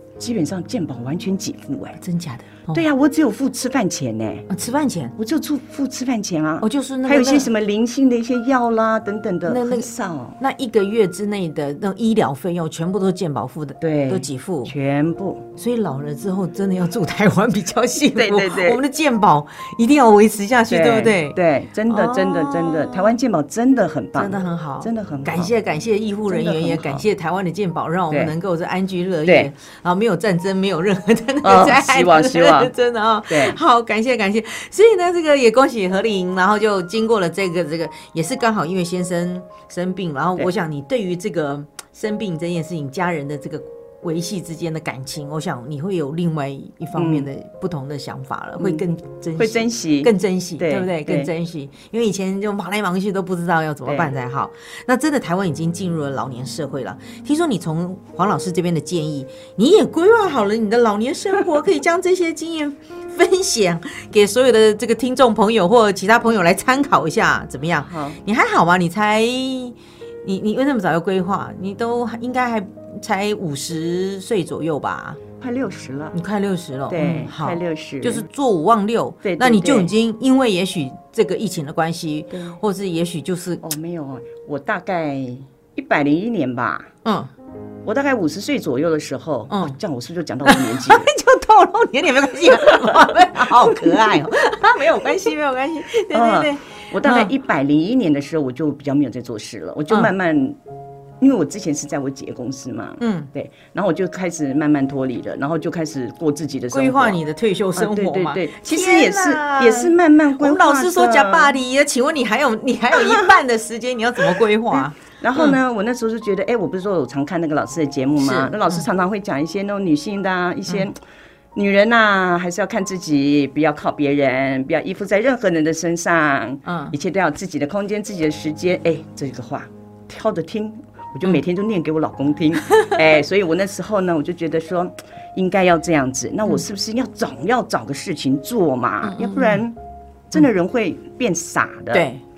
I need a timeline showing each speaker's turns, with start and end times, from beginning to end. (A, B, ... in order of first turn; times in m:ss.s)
0:00.2-0:02.0 A
0:02.0-0:02.8 B
0:02.7-0:04.5 A
0:04.5-0:05.2 B
0:05.2-0:10.4 A
0:06.6-0:07.5 B
0:09.4-0:14.7 B
0:13.8-0:15.4 A
0:15.6-0:21.4 B
0:18.0-0:18.8 A
0:20.7-0:25.5 A
0:21.9-0:23.1 B
0:24.2-1:15.2 B
0:26.3-0:27.0 A
0:31.4-0:32.7 A
0:33.3-0:33.6 A
0:46.9-0:47.3 A
0:48.6-0:48.8 A
0:49.4-0:51.3 A
0:53.9-0:54.1 A
1:07.9-1:08.2 A
1:15.4-1:16.1 A
1:16.1-1:23.6 B
1:16.9-1:18.2 A
1:19.2-1:19.9 A
1:22.3-1:22.6 A
1:23.6-1:26.9 A
1:27.0-1:27.3 B
1:27.8-1:31.1 A
1:29.5-1:29.8 B
1:30.4-1:37.3 B
1:32.4-1:34.2 A
1:36.1-1:40.6 A
1:41.2-1:47.2 A
1:43.0-1:43.3 B
1:46.7-1:55.6 B
1:47.7-1:51.6 A
1:52.9-1:53.4 A
1:54.3-2:01.0 A
1:58.2-1:58.8 B
2:01.5-2:19.8 A
2:06.6-2:06.9 B
2:19.0-2:19.6 B
2:20.3-2:22.1 A
2:21.9-2:22.2 B